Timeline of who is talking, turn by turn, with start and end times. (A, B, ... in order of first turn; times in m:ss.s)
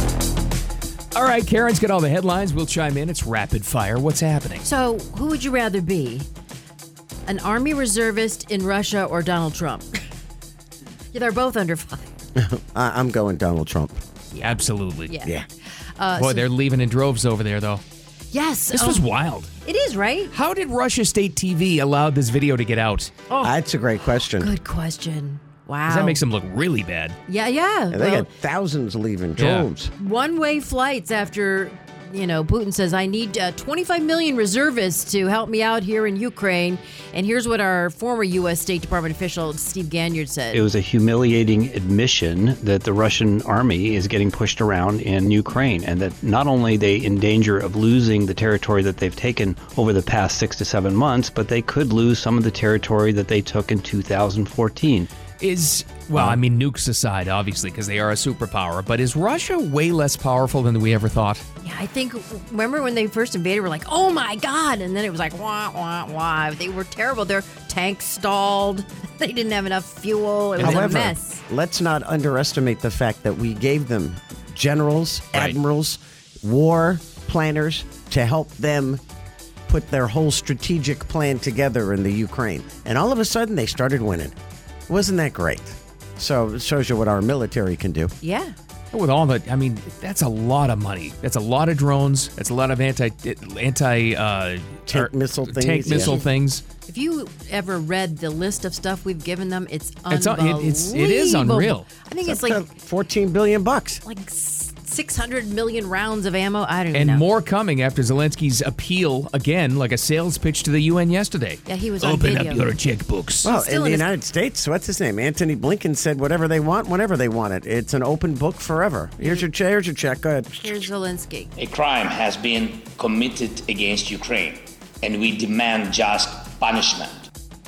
0:01.1-0:04.6 A
0:04.6-0:06.3 B
0:07.3-0:10.0 B
0:11.1-0:12.1 B
0:12.4-0:14.0 C
0:14.3-0:15.4 B
0:14.4-0:15.1 A
0:16.0-0:16.4 B
0:16.2-0:17.8 A
0:18.3-0:19.0 B
0:18.7-0:19.5 A
0:19.6-0:20.3 B
0:20.3-0:23.1 A
0:23.3-0:23.5 B
0:23.4-0:24.5 C
0:24.3-0:26.2 B
0:25.9-0:27.2 A
0:27.3-0:28.3 B
0:27.9-0:29.9 C
0:29.4-0:29.7 A
0:30.0-0:40.6 B
0:40.5-0:55.1 D
0:55.4-1:01.4 A
0:56.1-0:56.4 D
1:01.6-1:11.4 B
1:10.6-1:19.0 C
1:10.6-1:11.1 A
1:19.7-1:24.3 C
1:24.9-1:28.1 C
1:28.2-1:28.5 B
1:28.9-1:36.6 A
1:34.9-1:36.2 C
1:35.9-1:36.3 B
1:36.9-1:42.6 B
1:40.1-1:41.8 A
1:42.2-1:44.0 C
1:44.0-1:47.2 B
1:46.9-1:53.5 A
1:51.6-1:52.7 B
1:53.4-2:00.8 C
1:53.4-1:54.1 B
1:59.2-1:59.4 B
2:00.6-2:01.5 B
2:01.6-2:07.3 E